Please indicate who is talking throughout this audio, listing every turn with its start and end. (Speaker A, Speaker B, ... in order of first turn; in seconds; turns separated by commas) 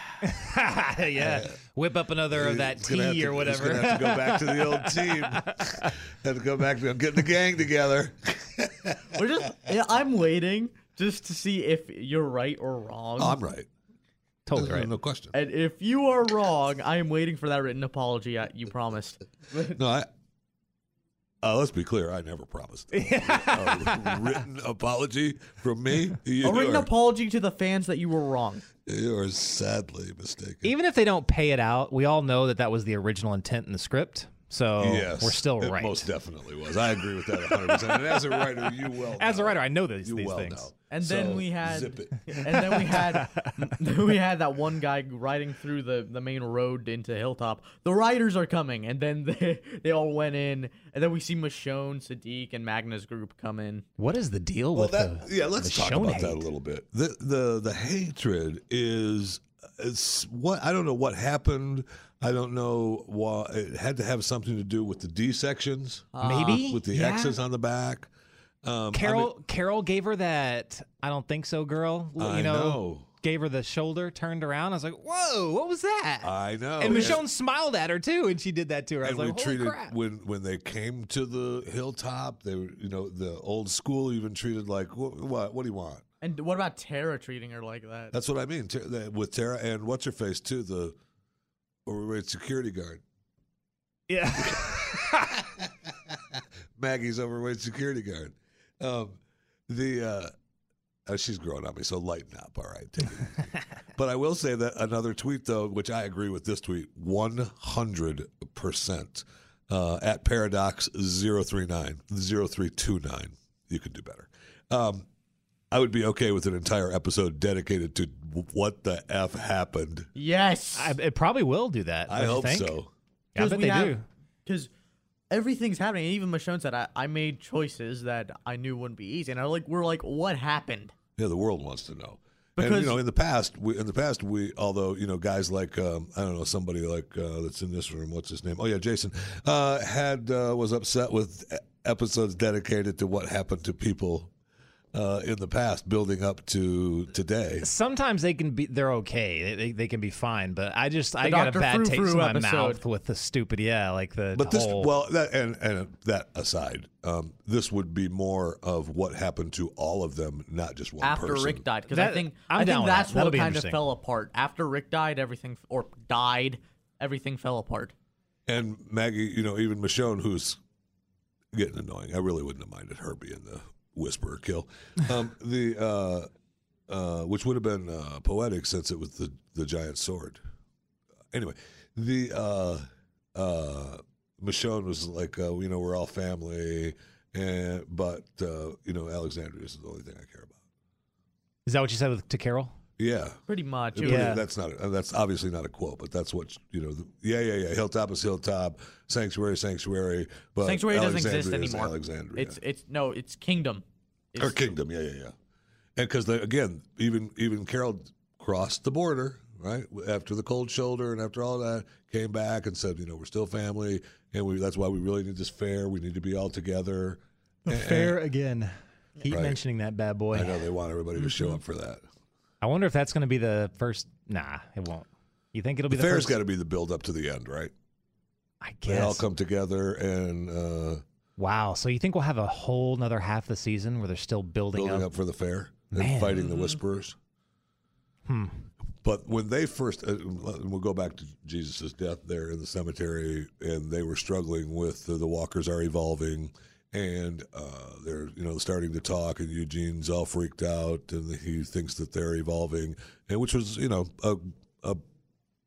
Speaker A: 0.2-5.9, Speaker B: 1.2-1.5, Speaker B: 2.3-9.2, Speaker C: 9.1-13.4, Speaker B: 13.2-13.7, Speaker A: 14.4-14.9, Speaker B: 14.5-15.3, Speaker C: 15.3-19.8, Speaker B: 19.7-20.1, Speaker B: 21.4-26.9, Speaker A: 22.9-24.4, Speaker C: 26.4-28.6, Speaker B: 28.9-30.7, Speaker A: 30.6-36.1, Speaker B: 34.8-42.3, Speaker A: 39.2-40.7, Speaker C: 40.9-53.9, Speaker A: 42.9-43.6, Speaker A: 54.0-56.5, Speaker B: 54.7-68.1, Speaker C: 66.1-66.6, Speaker A: 66.2-67.3, Speaker B: 68.6-69.3, Speaker A: 68.9-80.0, Speaker B: 72.2-73.1, Speaker B: 76.2-77.2, Speaker C: 76.8-77.2, Speaker B: 79.0-86.0, Speaker C: 86.2-88.1, Speaker B: 88.1-91.0, Speaker B: 91.8-93.0, Speaker A: 94.1-95.4, Speaker B: 94.4-100.3, Speaker B: 101.0-115.0, Speaker B: 115.7-120.1, Speaker C: 120.1-121.0, Speaker A: 120.7-122.7, Speaker B: 122.1-122.9, Speaker A: 123.3-124.0, Speaker C: 123.3-124.7, Speaker C: 125.3-130.9, Speaker B: 131.2-144.3, Speaker C: 132.6-133.0, Speaker B: 144.9-147.7, Speaker A: 147.6-154.9, Speaker C: 151.2-152.8, Speaker B: 154.3-161.6, Speaker C: 161.0-167.9, Speaker A: 161.9-163.8, Speaker B: 168.5-170.6, Speaker B: 171.5-176.3, Speaker B: 176.9-180.4, Speaker B: 181.3-190.6, Speaker A: 191.7-192.7, Speaker B: 193.0-193.4, Speaker C: 193.5-194.4, Speaker B: 193.9-202.6, Speaker A: 194.0-194.4, Speaker C: 200.6-204.7, Speaker B: 204.4-205.3, Speaker B: 205.9-218.2, Speaker A: 217.7-220.6, Speaker B: 219.3-219.6, Speaker B: 220.3-222.0, Speaker A: 222.6-226.3, Speaker B: 225.9-227.7, Speaker A: 228.6-229.2, Speaker B: 228.8-231.0, Speaker A: 231.4-235.1, Speaker B: 234.7-237.2, Speaker A: 235.9-236.5, Speaker A: 238.3-238.6, Speaker B: 239.0-255.0